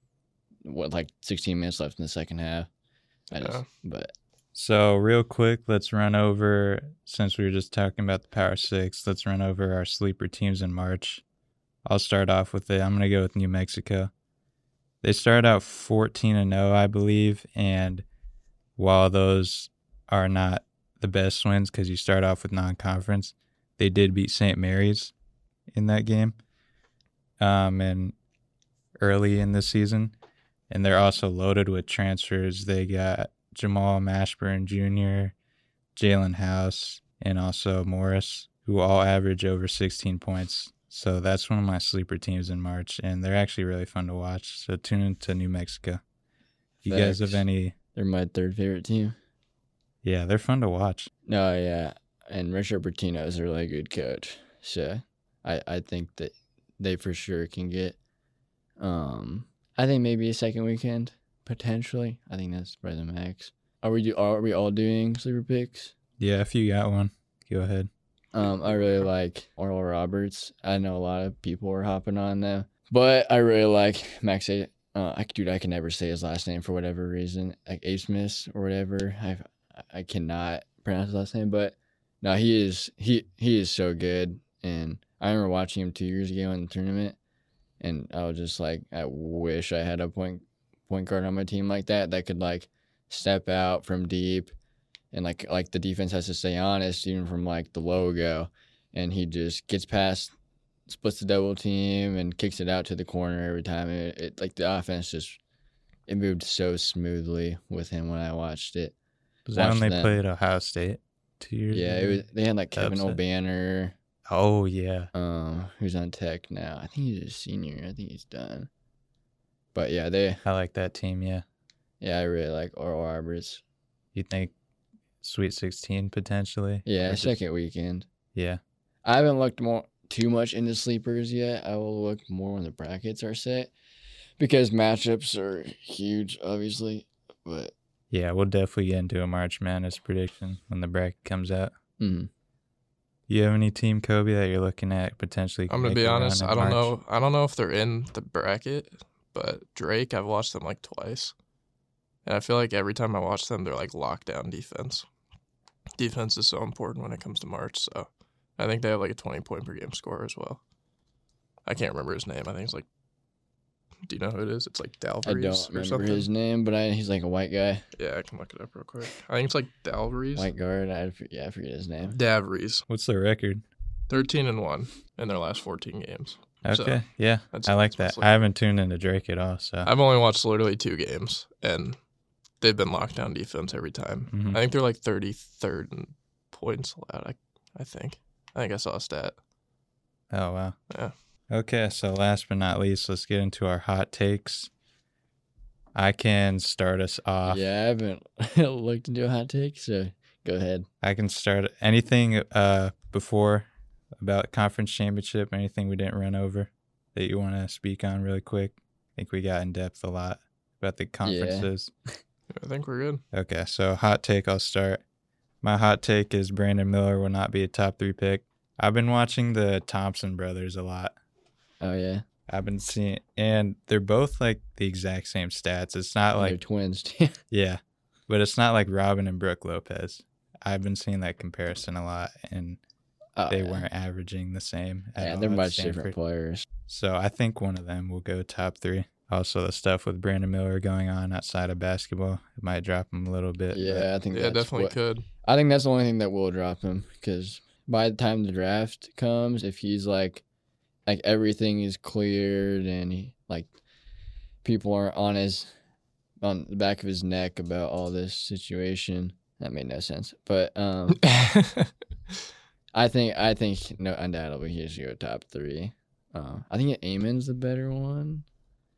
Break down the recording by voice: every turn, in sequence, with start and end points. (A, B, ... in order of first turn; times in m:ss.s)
0:00.6-0:02.7 A
0:03.3-0:04.1 A
0:03.4-0:03.6 B
0:04.6-0:11.2 C
0:11.8-0:14.1 C
0:15.0-0:18.0 C
0:18.8-0:25.1 C
0:25.7-0:26.4 C
0:27.4-0:28.2 C
0:29.0-0:30.1 C
0:30.7-0:35.3 C
0:36.0-0:46.0 C
0:46.8-0:47.8 C
0:46.8-0:49.2 A
0:50.0-0:51.1 C
0:51.3-0:58.0 A
0:58.8-1:06.0 A
1:06.2-1:07.9 C
1:08.3-1:27.2 A
1:27.8-1:34.5 A
1:35.1-1:40.3 A
1:40.9-1:45.4 A
1:46.1-1:49.0 A
1:49.5-1:53.2 C
1:49.6-1:50.2 A
1:51.7-1:54.0 A
1:54.3-1:55.1 C
1:55.1-1:58.7 A
1:59.7-2:00.4 A
2:00.4-2:01.4 C
2:02.0-2:03.6 A
2:04.1-2:04.5 C
2:05.2-2:07.4 C
2:06.8-2:08.1 A
2:08.4-2:08.6 C
2:09.0-2:13.7 A
2:14.4-2:17.7 A
2:18.1-2:21.7 C
2:22.0-2:22.3 A
2:23.3-2:26.9 C
2:25.7-2:31.3 B
2:32.2-2:35.0 B
2:36.0-2:40.6 B
2:41.7-2:42.8 B
2:44.0-2:46.3 B
2:45.2-2:47.8 A
2:48.0-2:50.5 B
2:50.4-2:52.2 A
2:52.1-2:52.8 B
2:52.9-2:53.6 C
2:54.1-2:57.0 B
2:56.6-2:59.9 C
2:57.5-2:58.3 B
2:59.9-3:02.0 B
3:02.6-3:09.4 B
3:04.3-3:04.6 C
3:10.3-3:10.8 C
3:11.5-3:14.7 C
3:16.0-3:17.6 C
3:17.4-3:20.9 A
3:21.0-3:23.7 C
3:24.2-3:31.9 C
3:31.2-3:31.7 A
3:32.5-3:33.2 B
3:33.3-3:35.0 C
3:35.6-3:41.1 C
3:41.8-3:42.2 A
3:42.5-3:46.6 C
3:46.4-3:47.4 A
3:47.5-3:52.8 C
3:53.4-3:53.9 A
3:53.5-3:56.1 C
3:55.2-3:56.7 A
3:56.9-4:04.1 C
4:03.7-4:10.4 A
4:04.3-4:05.3 B
4:11.1-4:13.7 A
4:14.6-4:15.7 A
4:16.4-4:21.2 A
4:21.2-4:21.9 B
4:22.9-4:28.4 A